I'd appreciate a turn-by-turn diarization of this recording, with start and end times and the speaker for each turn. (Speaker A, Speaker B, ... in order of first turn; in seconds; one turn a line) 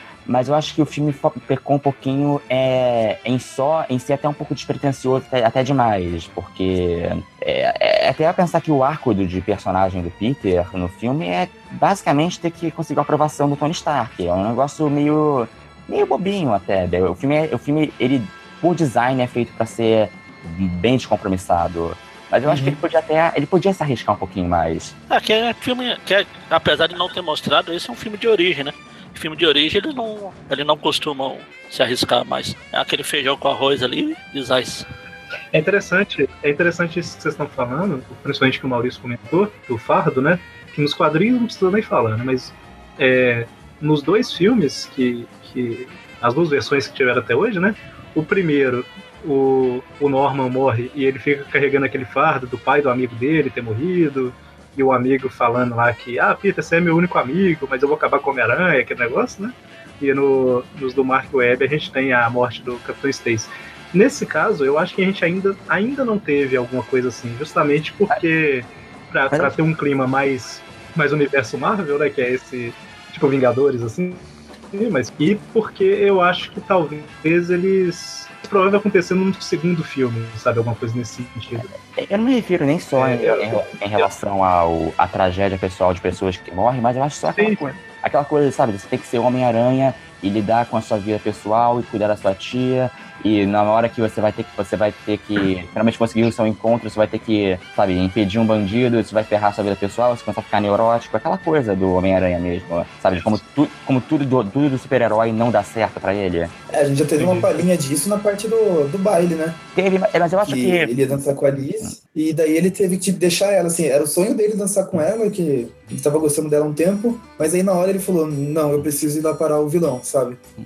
Speaker A: 0.2-24.9
Speaker B: 22.4-22.8
Speaker C: 25.1-34.9
Speaker D: 35.5-81.7
Speaker A: 69.3-69.6
Speaker A: 81.6-106.5
Speaker D: 82.9-84.1
Speaker D: 87.3-87.8
Speaker B: 106.7-109.6
Speaker D: 107.2-107.5
Speaker A: 109.8-110.9
Speaker B: 110.4-120.4